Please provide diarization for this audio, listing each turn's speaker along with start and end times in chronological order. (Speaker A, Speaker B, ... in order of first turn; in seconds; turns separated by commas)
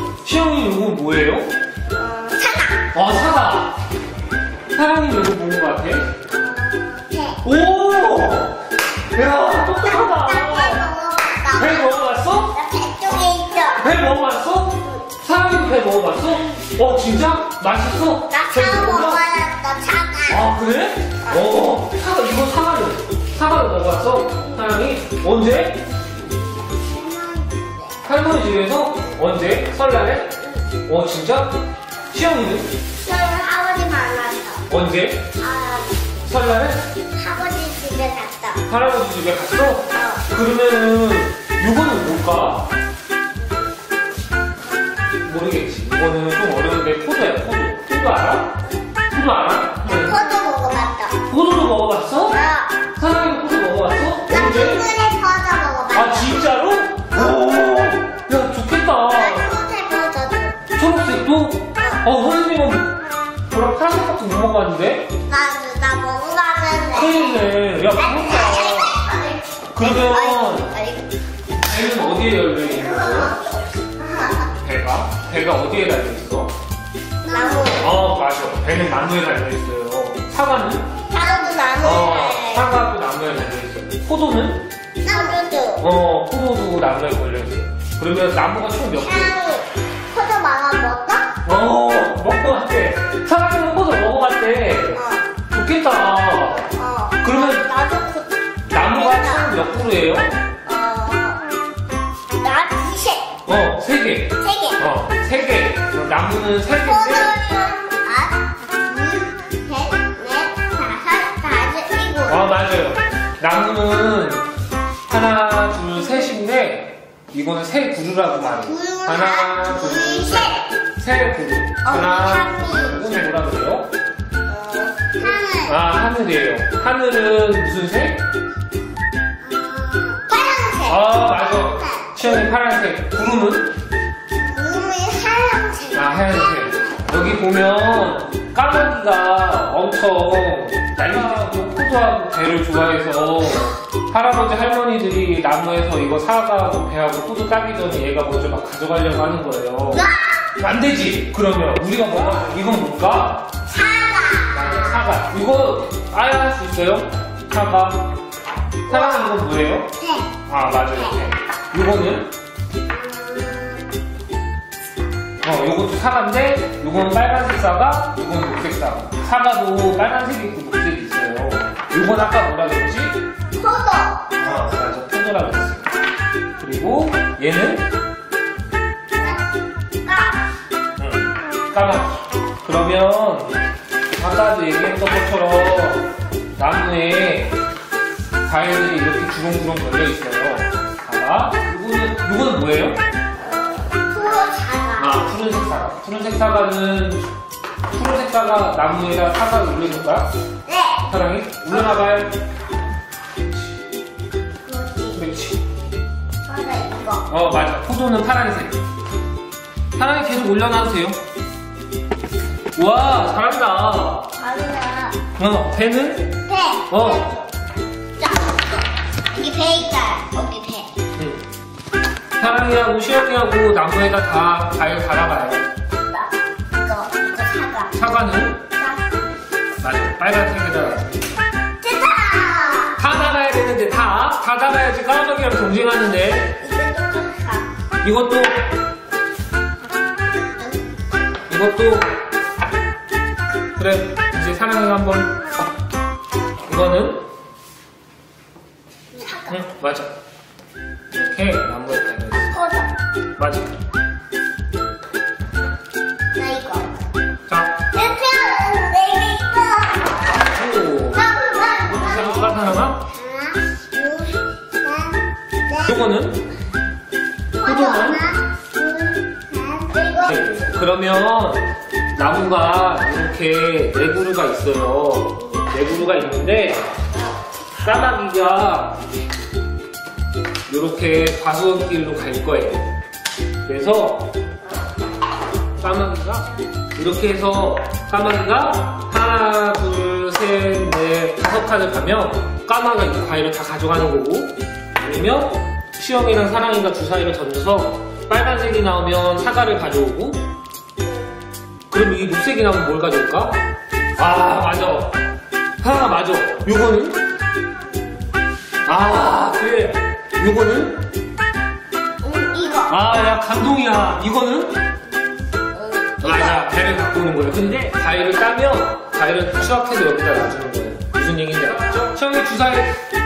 Speaker A: 0.2-1.5, Speaker B: 2.0-2.9, Speaker A: 2.9-3.8, Speaker A: 4.7-6.1, Speaker B: 6.3-7.4, Speaker A: 7.4-10.8, Speaker B: 9.8-13.9, Speaker A: 11.6-12.5, Speaker A: 13.8-19.2, Speaker B: 18.3-20.5, Speaker A: 20.3-25.8, Speaker B: 26.8-27.9, Speaker A: 28.0-30.3, Speaker A: 30.9-31.6, Speaker A: 32.1-32.7, Speaker B: 33.0-34.7, Speaker A: 34.7-35.3, Speaker B: 35.4-36.1, Speaker A: 36.2-36.9, Speaker B: 37.1-38.6, Speaker A: 38.7-42.7, Speaker B: 39.9-40.3, Speaker A: 45.2-48.5, Speaker A: 49.1-50.2, Speaker B: 49.9-51.2, Speaker A: 51.3-52.4, Speaker B: 52.3-52.8, Speaker A: 52.9-54.9, Speaker B: 54.3-56.5, Speaker A: 55.9-59.5, Speaker B: 57.1-57.4, Speaker B: 59.1-60.6, Speaker A: 60.7-63.0, Speaker B: 61.8-62.0, Speaker A: 63.5-65.1, Speaker B: 65.3-67.4, Speaker A: 66.9-69.0, Speaker B: 68.0-71.1, Speaker A: 69.8-70.7, Speaker A: 71.6-73.4, Speaker B: 72.7-73.4, Speaker B: 74.0-74.5, Speaker A: 74.6-76.5, Speaker B: 77.2-78.0, Speaker A: 77.7-80.9, Speaker B: 81.1-82.7, Speaker A: 81.8-84.7, Speaker B: 85.0-85.8, Speaker A: 85.8-89.4, Speaker B: 88.9-91.3, Speaker A: 91.5-97.7, Speaker B: 94.9-95.3, Speaker B: 96.8-99.6, Speaker A: 98.7-100.4, Speaker B: 100.7-101.4, Speaker B: 102.4-103.3, Speaker A: 103.5-107.3, Speaker B: 104.4-104.8, Speaker B: 106.8-112.6, Speaker A: 112.3-114.5, Speaker A: 115.1-123.9, Speaker B: 118.5-120.7, Speaker B: 121.8-123.1, Speaker B: 124.5-125.8, Speaker A: 125.6-128.2, Speaker B: 129.4-132.1, Speaker A: 130.9-133.7, Speaker B: 134.4-136.9, Speaker A: 135.9-150.1, Speaker B: 149.9-150.5, Speaker A: 150.6-153.5, Speaker B: 153.7-155.1, Speaker A: 154.5-158.1, Speaker A: 158.9-159.9, Speaker B: 158.9-159.4, Speaker B: 160.0-160.3, Speaker A: 160.5-162.3, Speaker B: 162.9-163.9, Speaker A: 165.4-173.2, Speaker B: 173.6-174.4, Speaker A: 174.4-175.8, Speaker A: 176.6-177.9, Speaker B: 179.2-179.5, Speaker B: 180.0-180.4, Speaker A: 181.0-183.6, Speaker A: 184.2-187.6, Speaker A: 188.4-193.0, Speaker B: 193.9-195.3, Speaker A: 195.0-197.3, Speaker A: 197.9-200.3, Speaker B: 200.7-201.1, Speaker A: 201.1-202.4, Speaker B: 204.7-205.2, Speaker A: 205.1-205.6, Speaker B: 206.5-207.3, Speaker A: 207.3-208.8, Speaker A: 210.0-211.2, Speaker A: 212.8-214.3, Speaker B: 214.4-215.2, Speaker A: 215.4-216.4, Speaker B: 216.5-217.5, Speaker A: 216.9-217.3, Speaker B: 218.2-220.9, Speaker A: 221.2-221.4, Speaker A: 222.4-225.7, Speaker B: 226.1-227.9, Speaker A: 227.9-228.6, Speaker B: 228.8-229.1, Speaker A: 229.8-231.3, Speaker B: 231.8-233.0, Speaker A: 233.0-236.6, Speaker B: 236.6-237.7, Speaker A: 238.0-238.6, Speaker B: 240.4-240.9, Speaker A: 241.5-242.1, Speaker A: 243.8-245.3, Speaker A: 246.7-247.2, Speaker B: 249.1-249.7, Speaker A: 249.5-250.1, Speaker A: 251.1-252.6, Speaker B: 252.5-252.9, Speaker A: 253.4-253.8, Speaker B: 256.4-257.0, Speaker A: 257.5-257.8, Speaker B: 257.9-260.3, Speaker A: 260.3-261.3, Speaker B: 261.1-266.0, Speaker A: 261.8-263.0, Speaker A: 265.8-266.4, Speaker B: 267.6-270.6, Speaker A: 267.6-268.3, Speaker A: 270.3-276.9, Speaker A: 277.8-279.0, Speaker A: 280.7-282.9, Speaker A: 283.6-284.3, Speaker A: 285.8-300.4, Speaker A: 301.9-303.6, Speaker A: 304.2-305.2, Speaker A: 305.8-307.2, Speaker A: 308.9-311.0, Speaker B: 312.2-313.1, Speaker A: 312.9-314.8, Speaker B: 315.8-316.7, Speaker A: 316.2-323.0